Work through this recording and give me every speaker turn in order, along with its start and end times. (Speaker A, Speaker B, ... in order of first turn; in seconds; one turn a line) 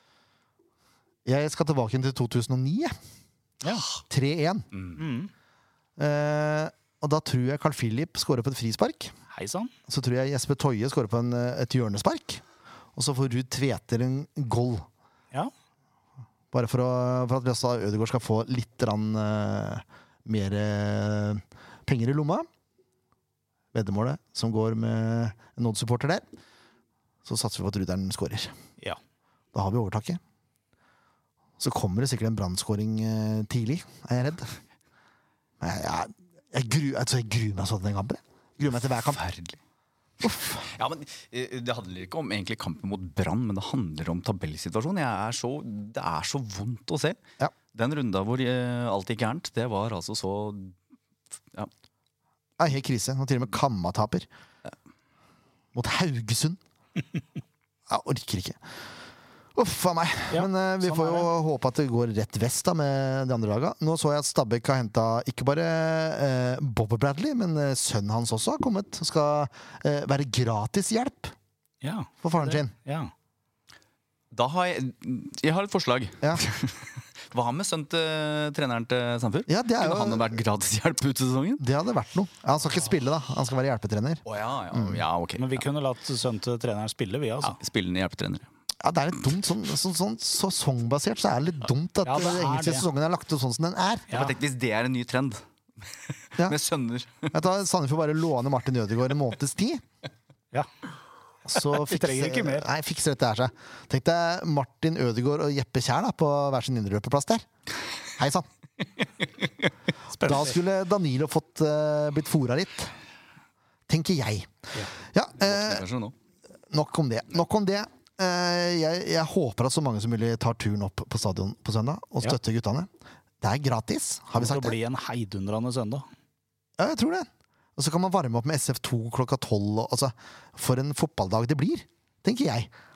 Speaker A: 1.2-2.9
Speaker B: 3.6-3.9
Speaker A: 4.1-4.7
Speaker B: 5.0-5.3
Speaker A: 6.0-9.1
Speaker B: 9.3-9.7
Speaker A: 9.9-12.4
Speaker A: 12.9-14.8
Speaker A: 16.5-22.5
Speaker A: 23.7-26.2
Speaker A: 27.2-28.5
Speaker A: 29.5-30.2
Speaker A: 31.6-34.5
Speaker A: 35.6-39.2
Speaker C: 39.1-39.6
Speaker A: 40.2-40.7
Speaker C: 40.6-47.2
Speaker C: 47.7-50.8
Speaker A: 52.6-54.3
Speaker A: 55.7-56.6
Speaker A: 57.9-58.6
Speaker A: 59.5-71.3
Speaker B: 60.3-61.3
Speaker B: 71.8-73.1
Speaker A: 72.2-72.7
Speaker C: 74.3-81.6
Speaker A: 79.5-80.4
Speaker A: 81.6-85.0
Speaker C: 84.2-85.6
Speaker B: 85.4-87.5
Speaker C: 87.4-88.5
Speaker A: 88.8-94.1
Speaker B: 92.0-92.8
Speaker C: 94.1-97.3
Speaker A: 97.3-99.8
Speaker A: 101.4-107.5
Speaker B: 101.6-102.7
Speaker A: 108.2-108.5
Speaker A: 110.2-112.9
Speaker B: 110.2-110.5
Speaker A: 113.9-114.5
Speaker A: 115.1-115.8
Speaker C: 115.4-116.1
Speaker A: 116.7-122.9
Speaker A: 123.4-124.8
Speaker B: 124.3-126.0
Speaker A: 126.8-132.7